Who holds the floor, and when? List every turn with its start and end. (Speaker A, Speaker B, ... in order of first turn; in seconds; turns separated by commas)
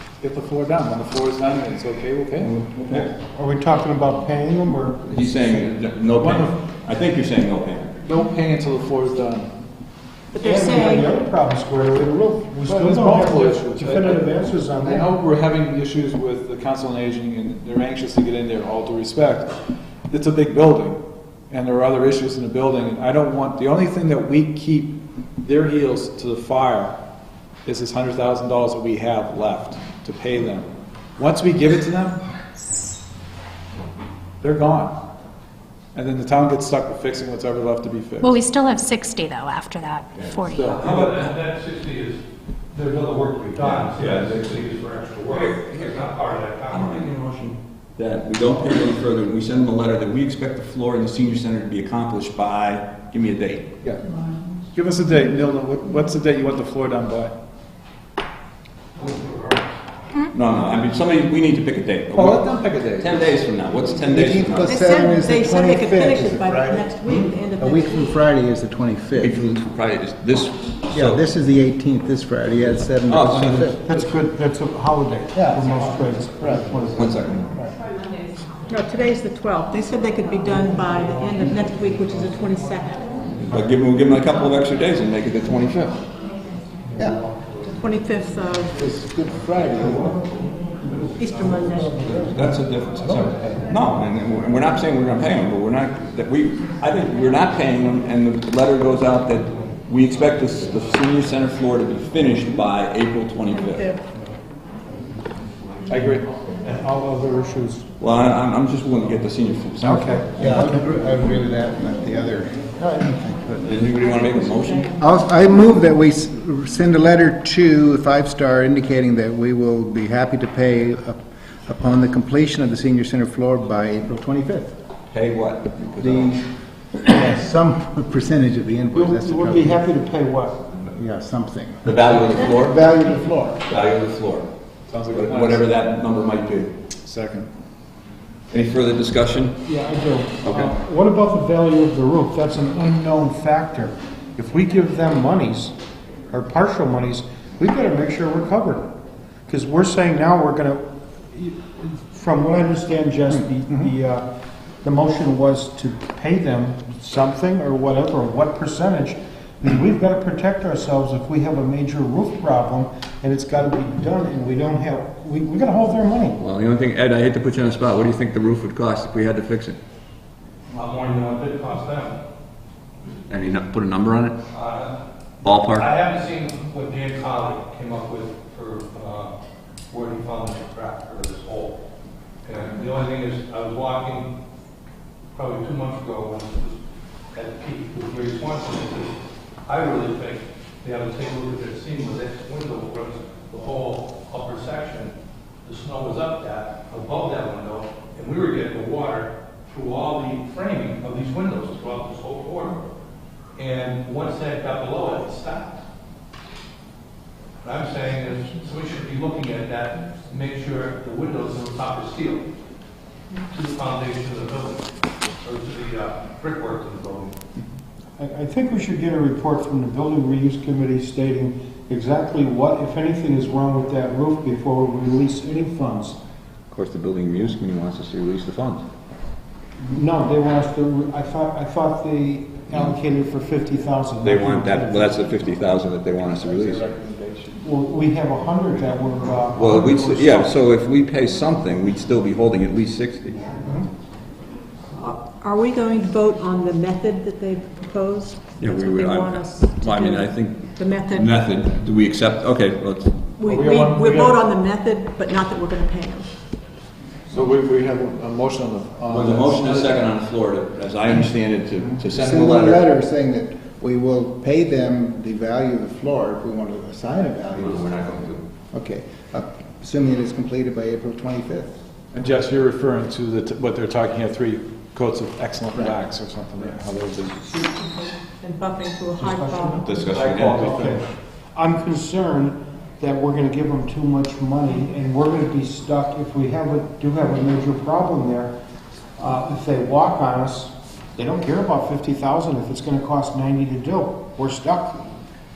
Speaker A: 0.2-2.6, Speaker B: 2.9-5.2, Speaker C: 5.0-8.0, Speaker A: 6.2-6.5, Speaker A: 8.0-9.5, Speaker D: 10.3-11.1, Speaker B: 10.4-15.1, Speaker A: 12.6-14.3, Speaker A: 14.8-19.6, Speaker A: 20.1-27.0, Speaker A: 27.7-32.2, Speaker A: 34.4-35.0, Speaker A: 35.9-38.4, Speaker E: 38.2-40.7, Speaker C: 40.1-41.3, Speaker F: 40.6-47.1, Speaker C: 43.6-46.1, Speaker C: 46.7-53.7, Speaker A: 54.7-57.4, Speaker F: 59.0-59.6, Speaker C: 60.3-64.8, Speaker A: 62.1-63.3, Speaker G: 64.1-69.4, Speaker D: 64.7-68.2, Speaker C: 69.2-71.2, Speaker G: 70.9-73.8, Speaker C: 73.1-73.8, Speaker B: 73.8-77.2, Speaker G: 75.3-76.8, Speaker C: 76.9-77.5, Speaker D: 78.7-83.2, Speaker C: 83.3-86.0, Speaker D: 87.7-88.9, Speaker G: 88.8-90.2, Speaker D: 91.2-92.0, Speaker G: 91.7-92.3, Speaker C: 91.9-103.9, Speaker G: 93.0-93.6, Speaker D: 103.7-104.0, Speaker A: 105.9-106.3, Speaker B: 106.7-107.9, Speaker C: 108.0-110.2, Speaker B: 109.8-110.9, Speaker G: 110.4-113.8, Speaker C: 113.6-115.0, Speaker D: 114.1-114.8, Speaker G: 115.0-124.8, Speaker C: 125.1-126.4, Speaker G: 126.0-126.4, Speaker G: 126.9-129.8, Speaker B: 128.9-130.6, Speaker G: 130.9-133.7, Speaker C: 131.8-132.8, Speaker C: 133.7-134.5, Speaker A: 134.9-135.7, Speaker C: 135.1-136.7, Speaker A: 137.1-137.5, Speaker C: 138.5-139.6, Speaker B: 139.6-145.8, Speaker C: 140.4-140.8, Speaker B: 146.3-148.9, Speaker B: 149.5-154.3, Speaker B: 154.8-166.4, Speaker C: 166.4-169.8, Speaker F: 170.7-172.2, Speaker C: 173.3-174.4, Speaker F: 174.5-175.0, Speaker C: 175.4-175.9, Speaker F: 175.7-179.3, Speaker F: 179.9-181.8, Speaker F: 182.4-184.3, Speaker F: 185.3-186.8, Speaker F: 187.3-189.1, Speaker F: 189.7-195.1, Speaker F: 195.7-202.8, Speaker F: 203.6-205.8, Speaker F: 207.6-212.5, Speaker F: 213.5-217.4, Speaker B: 218.2-226.2, Speaker C: 226.7-228.8, Speaker B: 229.8-235.1, Speaker C: 234.2-236.9, Speaker G: 237.0-237.5, Speaker B: 237.6-240.6, Speaker C: 239.6-243.6, Speaker D: 245.0-251.3, Speaker C: 248.6-253.2, Speaker D: 253.4-256.3, Speaker A: 253.4-254.4, Speaker A: 257.3-260.1, Speaker C: 259.1-262.9, Speaker G: 262.1-267.9, Speaker C: 267.5-268.5, Speaker G: 268.7-271.8, Speaker A: 272.1-277.6, Speaker D: 277.7-279.9, Speaker B: 279.2-288.5, Speaker C: 279.8-280.9, Speaker A: 280.1-281.1, Speaker B: 289.2-295.0